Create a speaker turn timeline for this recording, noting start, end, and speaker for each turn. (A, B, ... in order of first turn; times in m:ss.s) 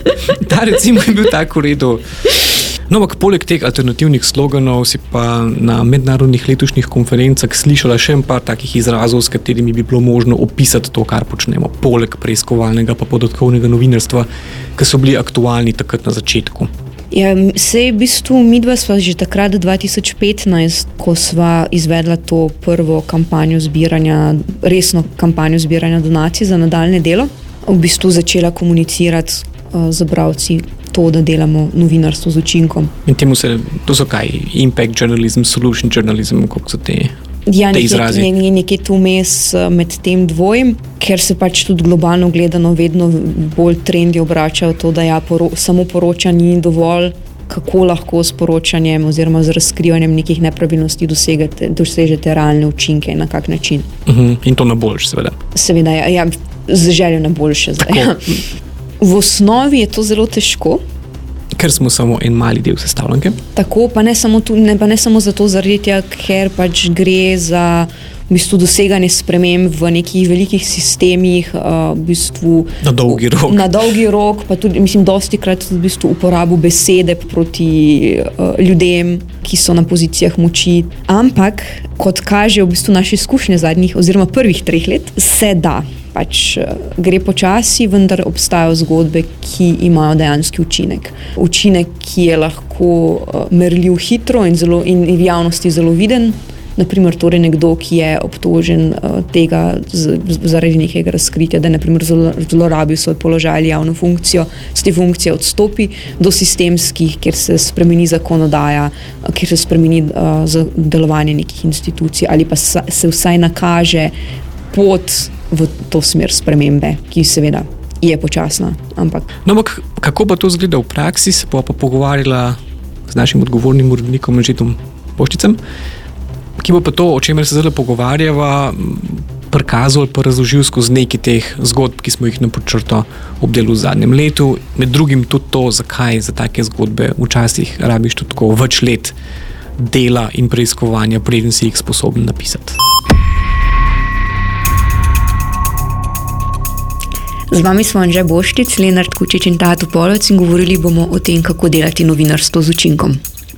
0:00.3-0:02.0 A
0:02.9-0:16.7 A
0:17.1-0:32.9 B
0:33.1-0:37.2 A
0:37.5-0:53.9 B
0:37.7-0:38.3 A
0:54.1-0:55.4 A
0:55.5-0:58.4 B
0:57.8-0:58.1 A
0:59.0-1:00.8 B
1:01.5-1:03.4 A
1:03.6-1:54.1 B
1:12.8-1:13.8 A
1:54.7-1:59.3 B
1:59.4-2:05.6 A
2:06.6-2:19.1 A
2:19.8-2:22.8 A
2:27.5-2:33.2 B